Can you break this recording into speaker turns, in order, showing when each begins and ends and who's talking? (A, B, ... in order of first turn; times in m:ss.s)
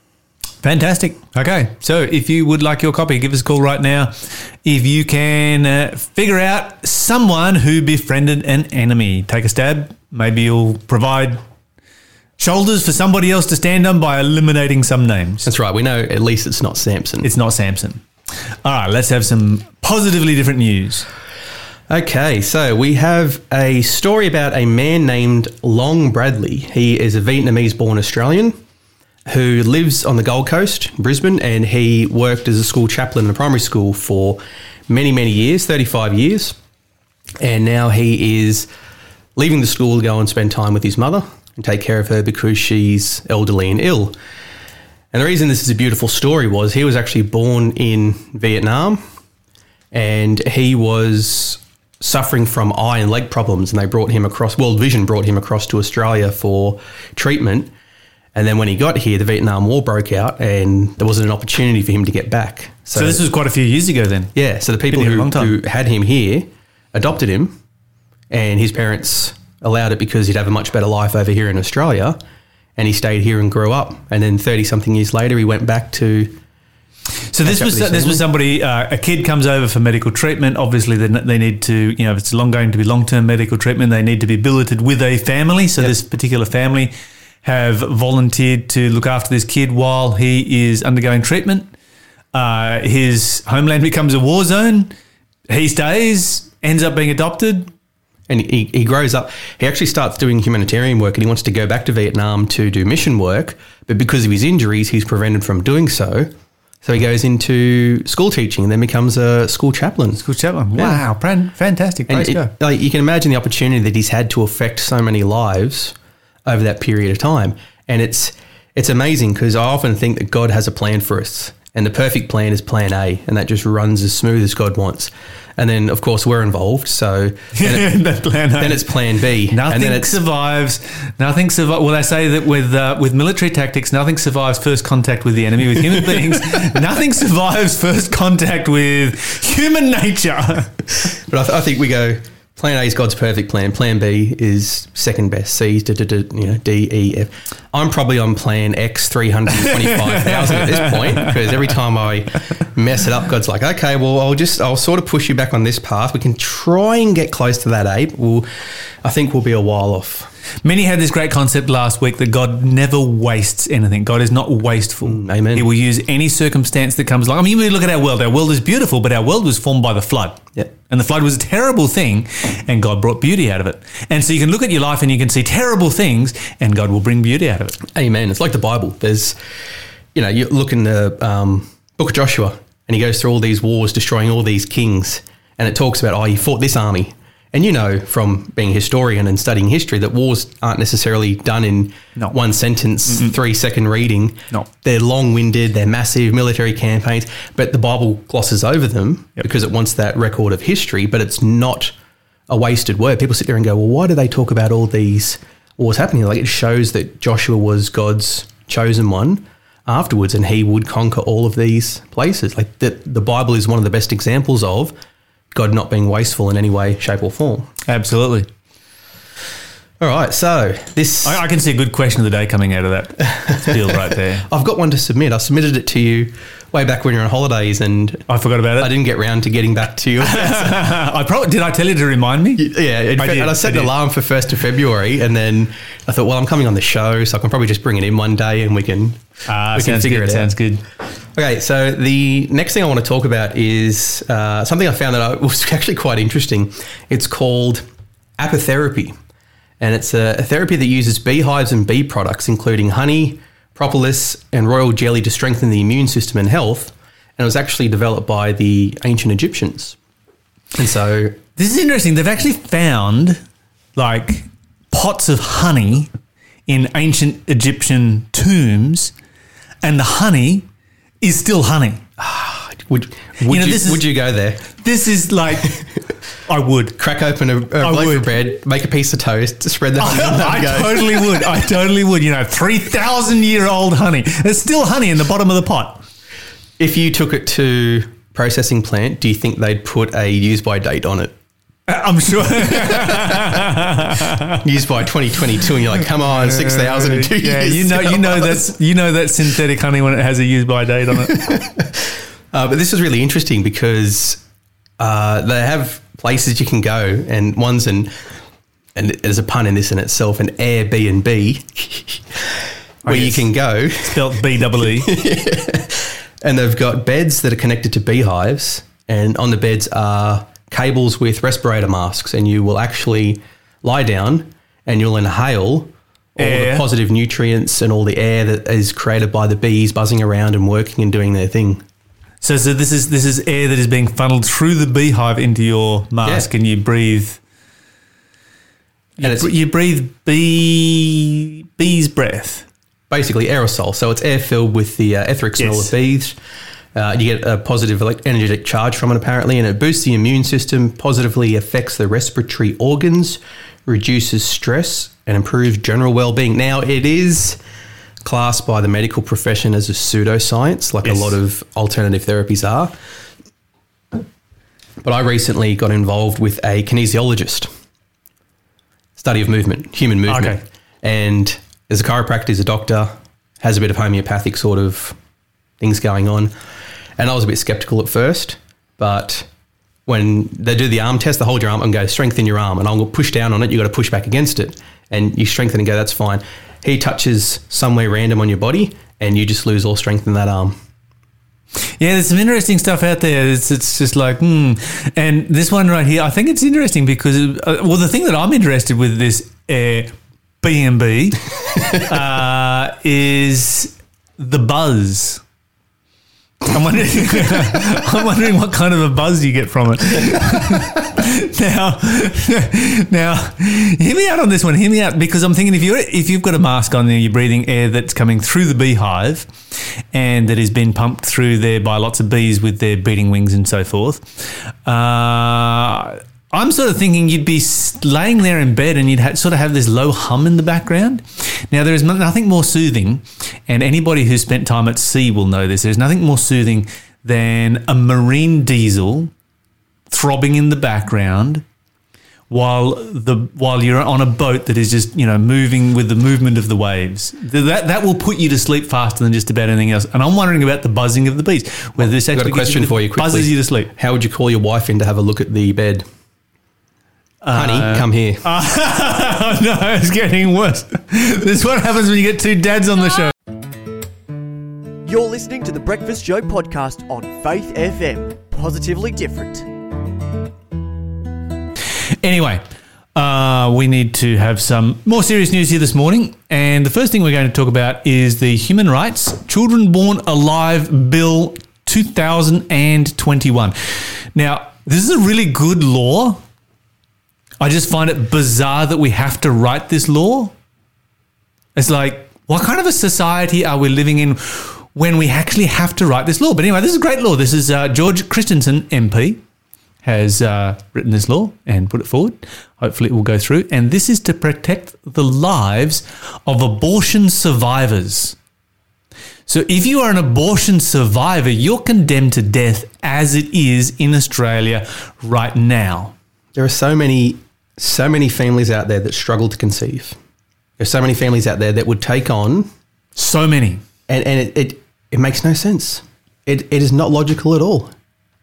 0:00.6-0:11.4 A
0:12.4-0:15.5 A
0:15.5-0:17.3 B
0:17.2-0:18.0 A
0:18.6-0:21.1 A
0:21.9-0:28.6 B
0:29.3-0:36.6 B
0:37.4-0:38.7 B
0:39.4-0:44.2 B
0:45.1-0:49.0 B
0:49.9-0:57.7 B
0:58.3-1:03.2 B
1:03.0-1:04.3 A
1:04.4-1:07.6 B
1:04.9-1:05.5 A
1:08.3-1:12.2 B
1:12.8-1:16.4 B
1:17.3-1:31.7 A
1:17.4-1:18.2 B
1:32.3-1:34.9 A
1:35.5-1:37.7 A
1:38.3-1:46.3 B
1:46.8-1:50.2 B
1:50.2-1:52.5 A
1:50.8-1:51.0 B
1:52.1-1:56.0 B
1:56.5-2:07.9 B
2:07.6-2:08.9 A
2:08.6-2:10.2 B
2:09.5-2:20.7 A
2:16.1-2:16.6 B
2:21.2-2:38.5 B
2:29.6-2:31.5 A
2:39.0-2:40.3 B
2:40.6-2:57.8 A
2:45.0-2:45.7 B
2:57.9-2:59.4 B
3:00.2-3:21.9 B
3:22.5-3:34.9 B
3:35.5-3:37.7 B
3:37.9-3:38.5 A
3:40.0-3:41.4 B
3:41.2-3:44.4 A
3:44.5-3:48.3 B
3:48.3-3:48.9 A
3:48.8-3:50.9 B
3:50.2-3:52.7 A
3:52.6-4:00.5 B
3:53.2-3:53.9 A
3:59.5-4:00.8 A
4:01.4-4:07.8 B
4:08.4-4:09.2 B
4:09.8-4:20.0 B
4:20.8-4:21.4 B
4:21.6-4:23.4 A
4:24.0-4:26.1 A
4:26.7-4:29.1 A
4:29.8-4:30.7 A
4:31.2-4:32.0 A
4:32.2-4:34.6 B
4:33.5-4:34.1 A
4:34.8-4:35.8 A
4:36.5-4:37.0 A
4:37.0-4:41.6 B
4:37.8-4:38.4 A
4:40.0-4:46.0 A
4:46.8-4:51.4 B
4:51.9-4:54.6 A
4:52.8-4:53.6 B
4:54.6-4:58.7 B
4:56.4-5:01.5 A
5:01.3-5:02.0 B
5:02.5-5:04.4 B
5:05.0-5:08.1 B
5:09.0-5:12.4 B
5:13.0-5:13.5 A
5:13.1-5:31.8 B
5:14.0-5:15.2 A
5:26.4-5:26.8 A
5:32.4-5:37.4 A
5:39.2-5:42.7 A
5:39.2-5:39.5 B
5:43.1-5:46.4 B
5:45.6-5:45.9 A
5:47.0-5:57.6 B
5:58.2-6:02.9 B
6:01.0-6:01.4 A
6:05.0-6:07.7 B
6:09.2-6:15.2 B
6:10.3-6:10.6 A
6:15.8-6:16.5 B
6:17.2-6:19.5 B
6:20.1-6:30.8 B
6:32.0-6:45.4 A
6:46.7-7:04.2 A
7:04.8-7:19.3 A
7:20.1-7:21.6 A
7:22.5-7:33.9 A
7:32.0-7:36.0 B
7:37.4-7:43.3 A
7:37.5-7:38.4 B
7:45.0-7:49.7 C
7:52.2-7:52.6 A
7:53.2-8:06.4 A
8:07.6-8:10.5 A
8:11.8-8:19.4 A
8:20.0-8:28.4 A
8:29.5-8:36.1 A
8:36.6-8:40.2 B
8:40.8-8:42.7 B
8:43.2-8:43.8 A
8:44.1-8:47.9 B